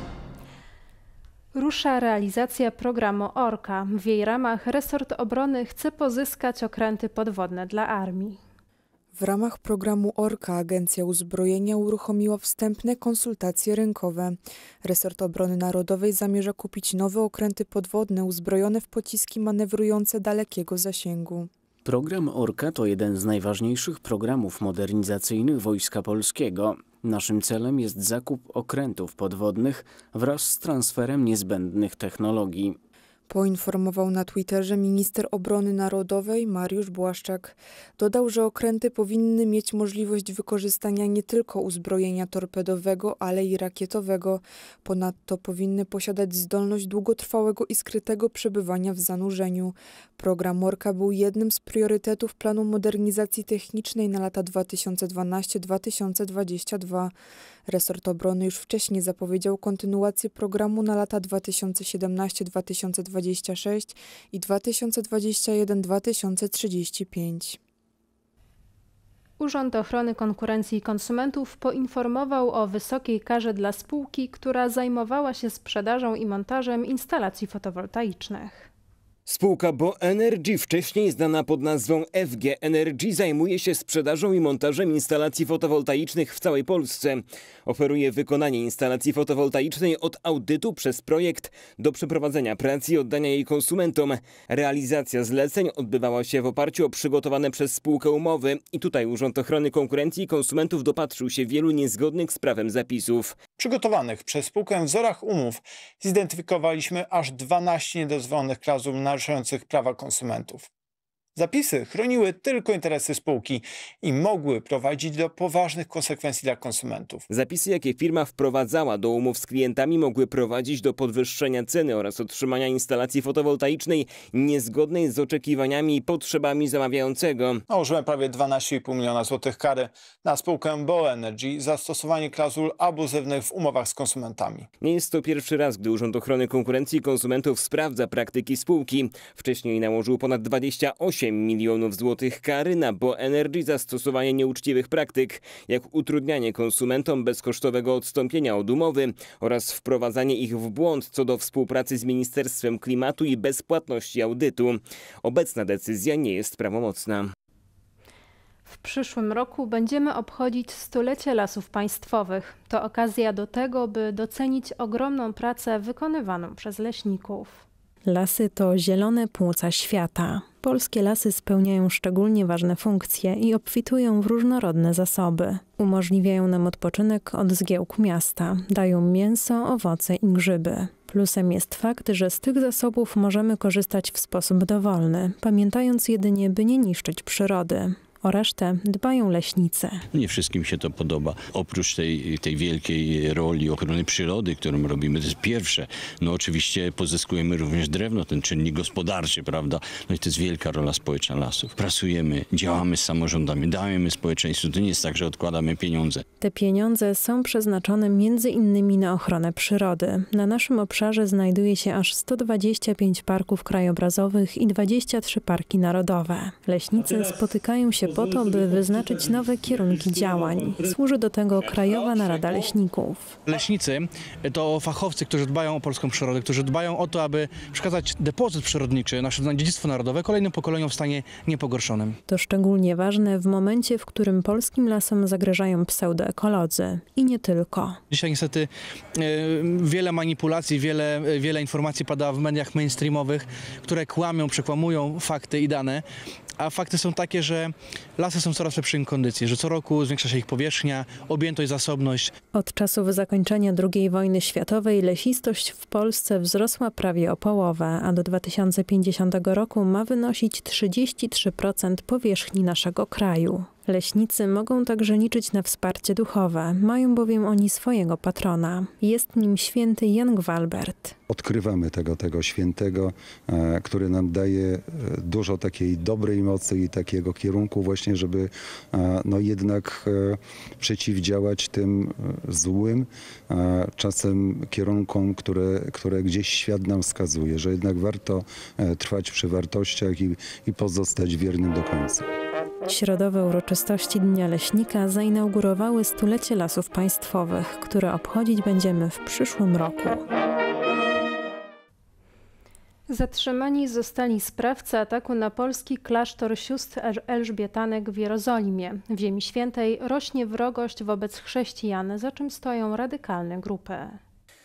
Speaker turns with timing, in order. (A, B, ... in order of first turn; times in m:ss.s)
0:01.5-0:08.4 A
0:09.1-0:21.5 B
0:21.8-0:32.8 C
0:33.3-0:57.1 B
0:57.7-1:07.6 B
1:09.4-1:18.7 A
1:19.3-1:43.4 D
1:43.6-1:50.7 E
1:51.4-1:57.2 E
1:57.3-2:07.6 D
2:07.7-2:14.7 E
2:14.8-2:37.3 D
2:38.7-2:47.6 A
2:48.1-3:10.0 F
3:10.1-3:26.2 G
3:26.4-3:43.4 F
3:43.5-3:52.1 H
3:52.3-3:58.0 F
3:58.1-3:58.7 H
3:59.2-4:06.0 H
4:06.6-4:12.3 H
4:12.5-4:31.2 F
4:31.3-4:52.2 I
4:52.9-5:00.2 F
5:03.1-5:14.2 A